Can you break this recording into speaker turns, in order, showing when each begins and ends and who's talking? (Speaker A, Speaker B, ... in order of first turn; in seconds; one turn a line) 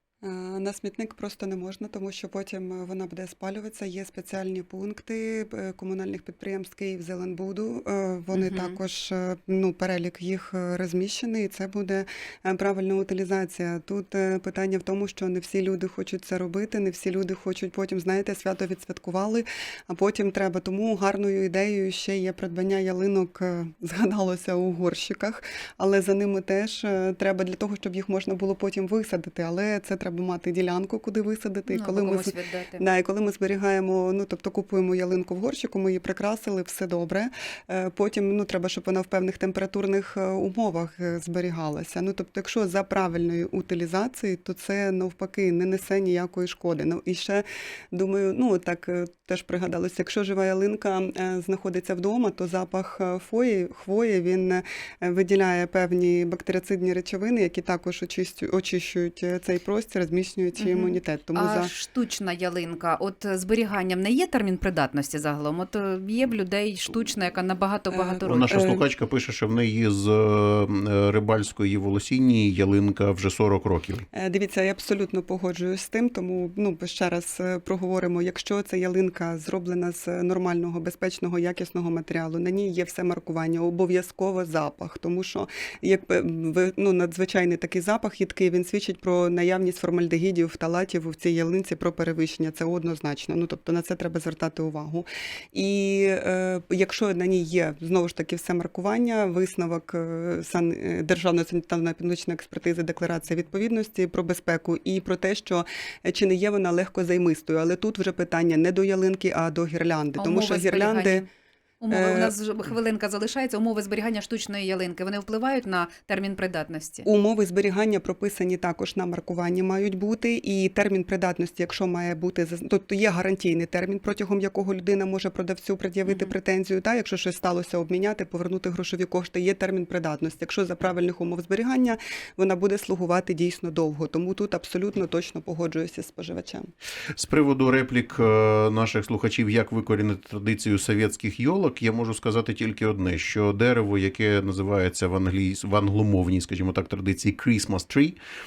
Speaker A: 0.2-61.7
Speaker B: 8.3-8.8
Speaker B: 31.7-32.8
Speaker B: 60.6-68.8
Speaker A: 67.9-68.8
Speaker C: 68.2-74.0
Speaker A: 74.1-111.2
Speaker B: 110.2-111.3
Speaker B: 111.8-117.0
Speaker A: 111.9-112.3
Speaker A: 117.0-136.7
Speaker B: 126.1-126.3
Speaker C: 137.2-148.2